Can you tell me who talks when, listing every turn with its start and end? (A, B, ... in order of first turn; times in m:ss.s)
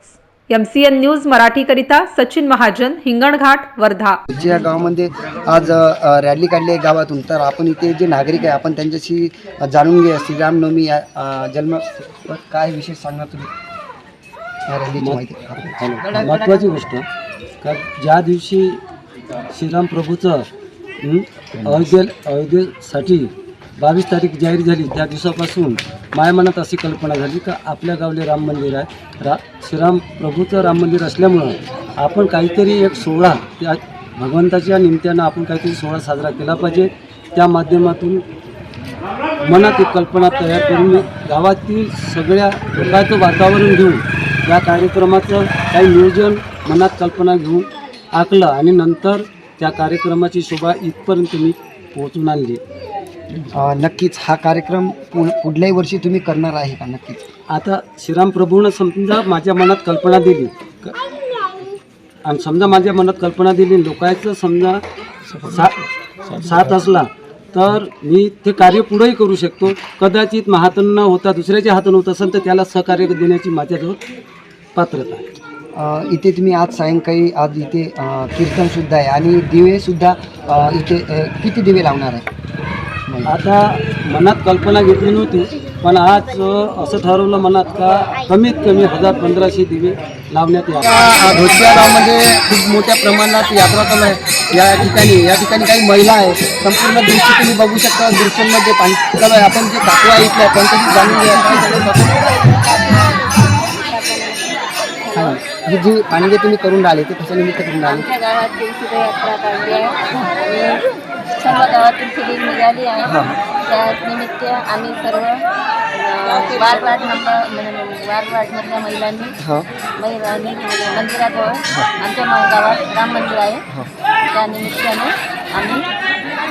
0:00.5-0:04.2 A
0:04.3-0:13.5 B
0:14.7-0:16.3 B
0:15.0-0:17.1 C
0:17.6-0:18.8 C
0:19.5-0:20.5 C
0:21.0-0:38.2 C
0:39.4-0:52.6 C
0:53.5-0:57.2 B
0:57.5-1:01.0 C
1:02.2-1:04.8 C
1:05.4-1:05.8 C
1:06.3-1:14.0 C
1:14.8-1:15.3 C
1:15.8-1:22.3 B
1:23.1-1:23.4 B
1:23.3-1:30.8 C
1:30.8-1:42.4 B
1:43.6-1:45.4 D
1:45.2-1:48.1 B
1:47.8-1:50.8 D
1:51.4-1:59.4 D
1:53.1-1:53.3 B
1:59.4-1:59.7 B
2:00.0-2:03.6 D
2:04.3-2:05.9 D